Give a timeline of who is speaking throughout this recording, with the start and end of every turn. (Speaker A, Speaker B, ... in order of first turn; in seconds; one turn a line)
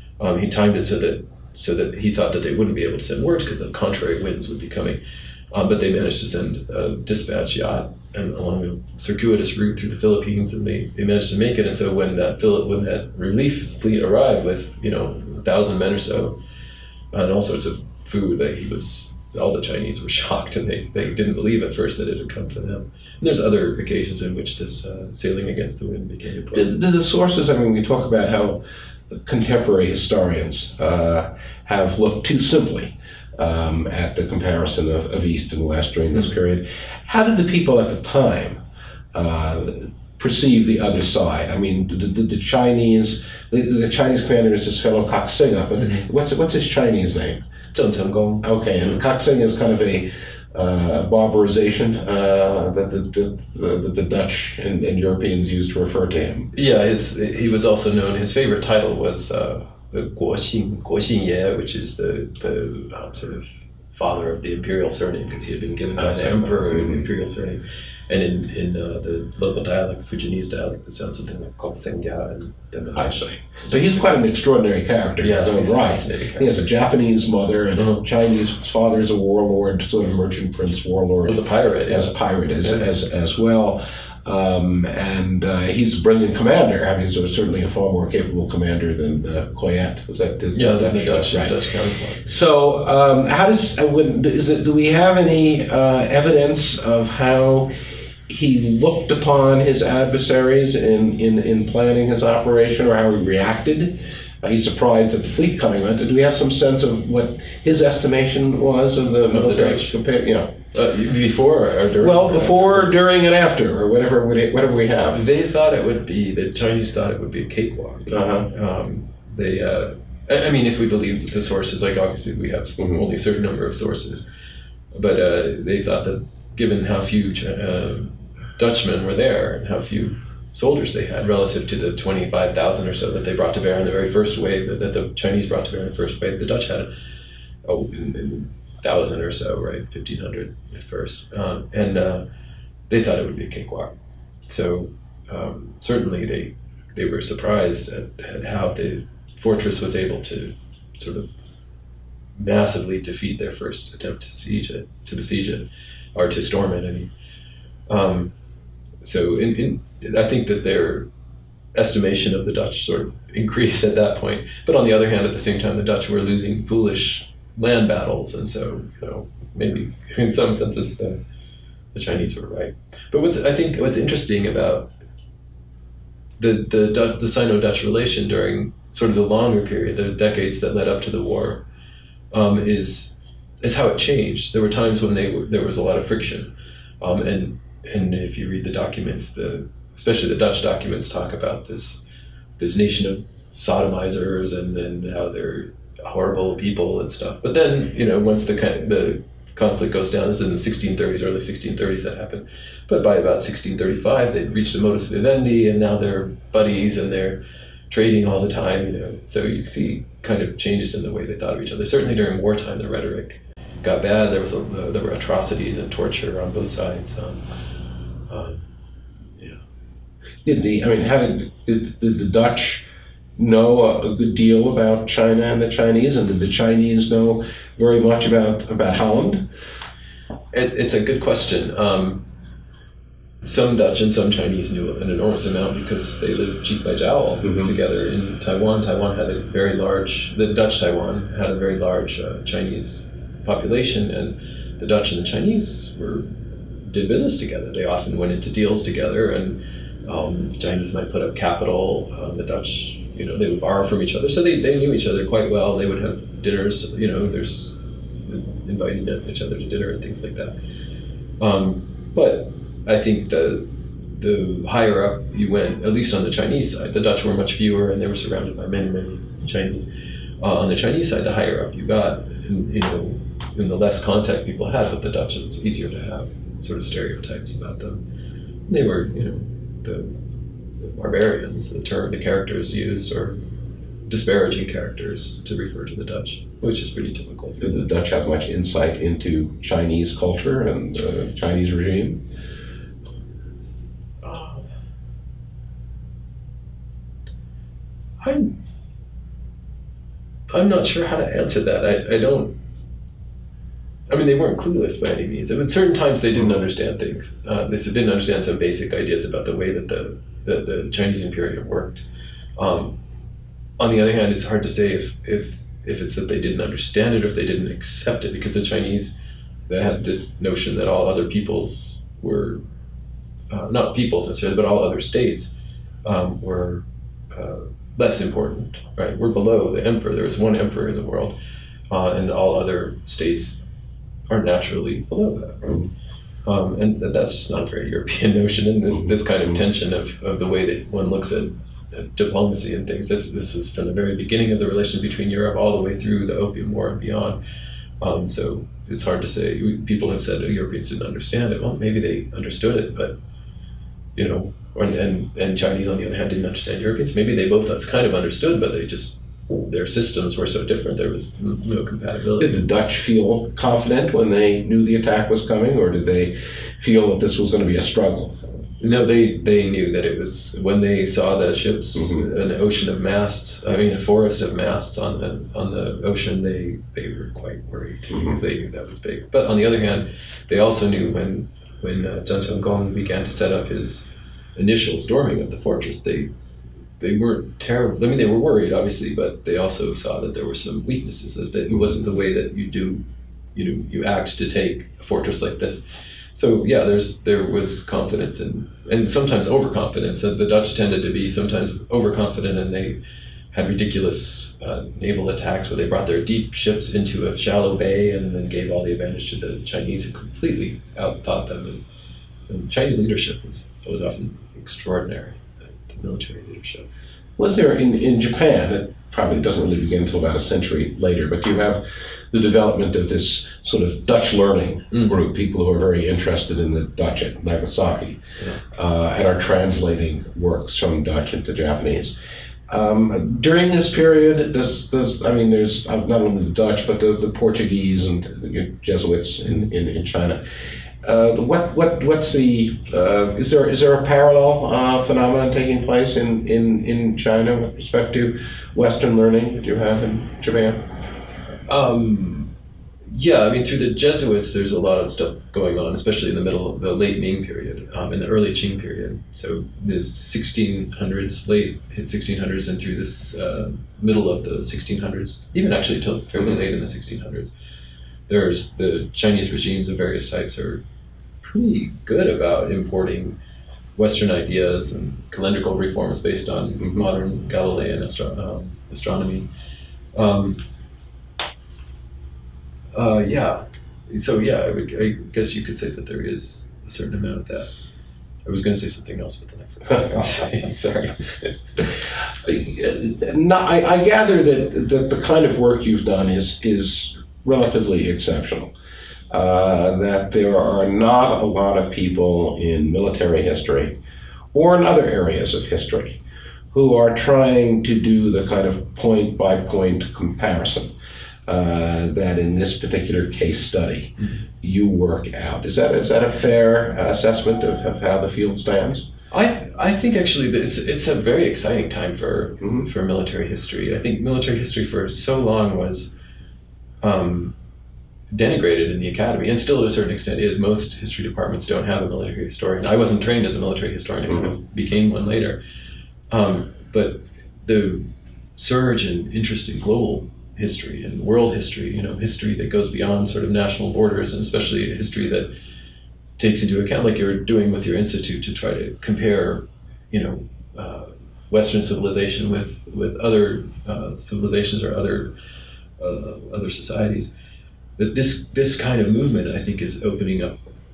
Speaker A: 0.2-5.0
Speaker A: 5.5-16.4
Speaker A: 17.1-26.8
Speaker B: 26.5-38.6
Speaker B: 39.1-47.4
Speaker A: 45.8-46.1
Speaker A: 47.7-49.0
Speaker B: 48.4-56.5
Speaker A: 56.5-74.1
Speaker B: 66.0-67.0
Speaker B: 73.0-91.6
Speaker A: 75.2-76.7
Speaker A: 77.8-78.0
Speaker A: 81.2-82.9
Speaker A: 90.5-92.3
Speaker B: 92.2-97.7
Speaker B: 98.3-110.5
Speaker A: 109.3-110.0
Speaker A: 110.7-113.0
Speaker B: 112.0-115.2
Speaker A: 115.1-124.2
Speaker B: 118.1-118.5
Speaker A: 124.9-136.9
Speaker A: 137.7-142.2
Speaker A: 142.9-143.9
Speaker A: 144.5-151.3
Speaker A: 152.4-157.1
Speaker A: 157.9-158.3
Speaker A: 159.0-161.1
Speaker A: 161.8-171.2
Speaker A: 171.9-174.9
Speaker A: 176.4-181.6
Speaker A: 182.3-192.0
Speaker A: 192.6-217.5
Speaker A: 218.3-218.7
Speaker B: 220.4-222.8
Speaker B: 223.4-229.5
Speaker A: 230.5-232.3
Speaker A: 233.4-246.3
Speaker B: 237.4-237.7
Speaker A: 246.8-260.6
Speaker A: 261.4-269.9
Speaker A: 270.4-278.0
Speaker A: 278.7-280.2
Speaker A: 280.8-283.4
Speaker A: 284.1-287.9
Speaker B: 287.6-292.3
Speaker A: 294.2-294.7
Speaker A: 298.2-298.6
Speaker A: 300.5-302.6
Speaker A: 304.1-312.0
Speaker A: 312.6-313.0
Speaker A: 313.8-319.2
Speaker A: 319.7-322.6
Speaker A: 323.5-325.5
Speaker A: 326.1-331.4
Speaker A: 331.9-333.6
Speaker A: 334.3-335.9
Speaker A: 336.5-347.4
Speaker A: 348.0-353.2
Speaker A: 354.2-362.6
Speaker B: 362.4-368.4
Speaker A: 368.8-384.1
Speaker B: 372.0-372.2
Speaker A: 384.6-386.3
Speaker A: 387.0-393.0
Speaker A: 393.6-395.8
Speaker A: 396.3-403.0
Speaker A: 403.5-411.8
Speaker A: 412.5-416.9
Speaker B: 417.4-432.1
Speaker B: 432.7-440.4
Speaker B: 441.0-450.9
Speaker A: 451.7-452.5
Speaker A: 453.1-467.5
Speaker A: 468.3-470.8
Speaker A: 471.4-473.4
Speaker A: 474.0-479.5
Speaker A: 480.1-480.6
Speaker A: 482.9-487.7
Speaker A: 488.5-491.6
Speaker B: 492.4-498.7
Speaker B: 499.3-504.0
Speaker B: 504.5-506.2
Speaker B: 506.7-510.9
Speaker B: 511.5-519.1
Speaker A: 519.3-526.1
Speaker A: 527.0-527.5
Speaker A: 528.3-535.6
Speaker A: 536.3-545.5
Speaker A: 546.4-555.4
Speaker A: 556.0-557.3
Speaker A: 558.0-560.6